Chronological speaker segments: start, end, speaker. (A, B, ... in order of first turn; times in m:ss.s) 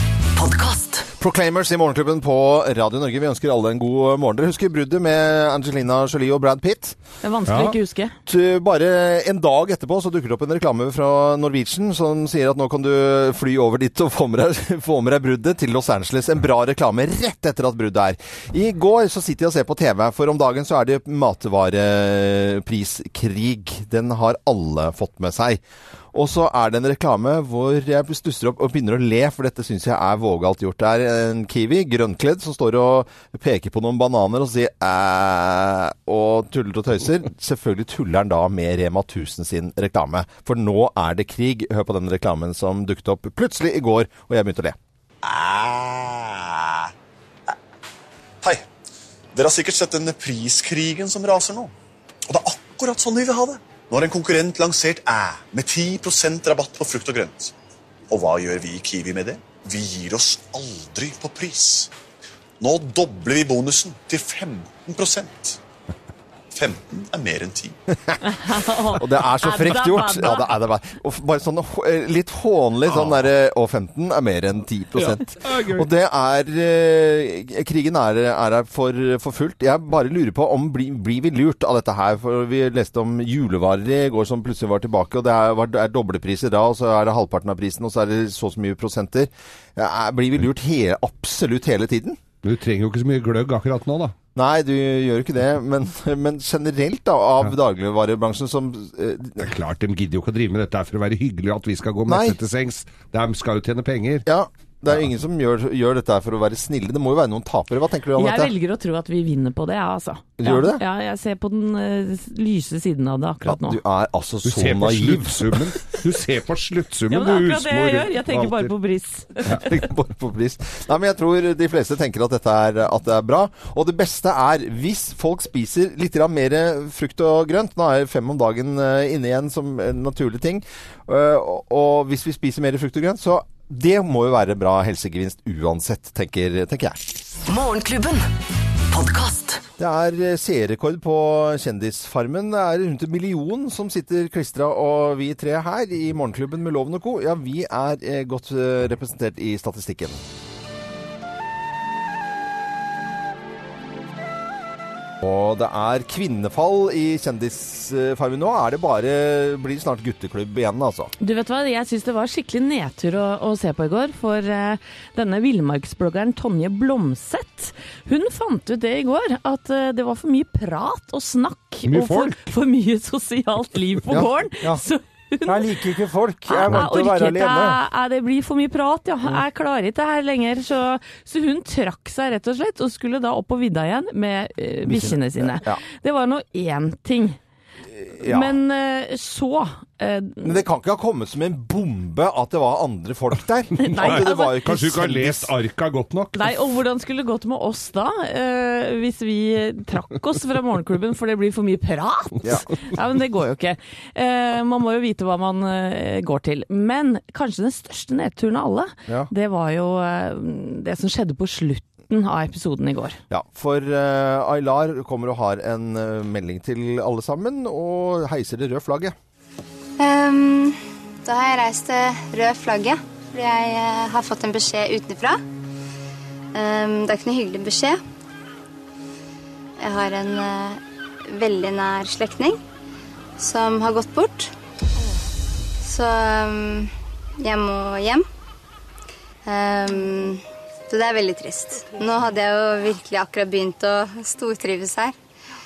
0:00.3-0:01.1 A
0:01.1-0:07.0 B
0:07.2-0:08.2 C
0:07.5-0:07.7 D
0:08.2-0:25.6 B
0:26.1-0:44.8 B
0:45.2-0:46.9 E
0:49.3-0:51.7 E
0:52.3-0:57.5 E
0:58.1-1:01.9 E
1:02.6-1:05.6 E
1:06.5-1:07.8 E
1:08.2-1:10.5 C
1:08.9-1:32.2 B
1:12.9-1:13.3 D
1:14.9-1:15.9 D
1:32.4-1:34.1 D
1:34.3-1:39.5 B
1:39.4-1:44.3 D
1:42.1-1:42.4 B
1:44.2-1:48.5 B
1:48.2-1:53.8 C
1:50.4-1:50.8 B
1:53.4-1:55.7 B
1:54.4-1:58.7 D
1:57.1-1:59.8 C
1:59.5-2:17.0 B
2:17.4-2:18.3 A
2:18.9-2:19.6 A
2:19.8-2:30.2 B
2:35.2-2:41.1 B
2:41.2-2:55.7 C
2:51.9-2:52.4 D
2:54.1-2:54.8 B
2:55.4-2:57.8 B
2:56.5-3:07.4 C
3:04.8-3:05.8 B
3:07.9-3:08.5 B
3:08.2-3:10.6 C
3:10.4-3:15.5 B
3:13.8-3:14.6 C
3:13.9-3:16.5 D
3:16.3-3:33.2 C
3:33.3-3:39.1 B
3:40.0-3:45.4 F
3:46.5-3:48.0 F
3:49.8-3:52.6 F
3:53.4-3:54.5 F
3:55.8-3:58.2 F
3:59.4-4:05.2 F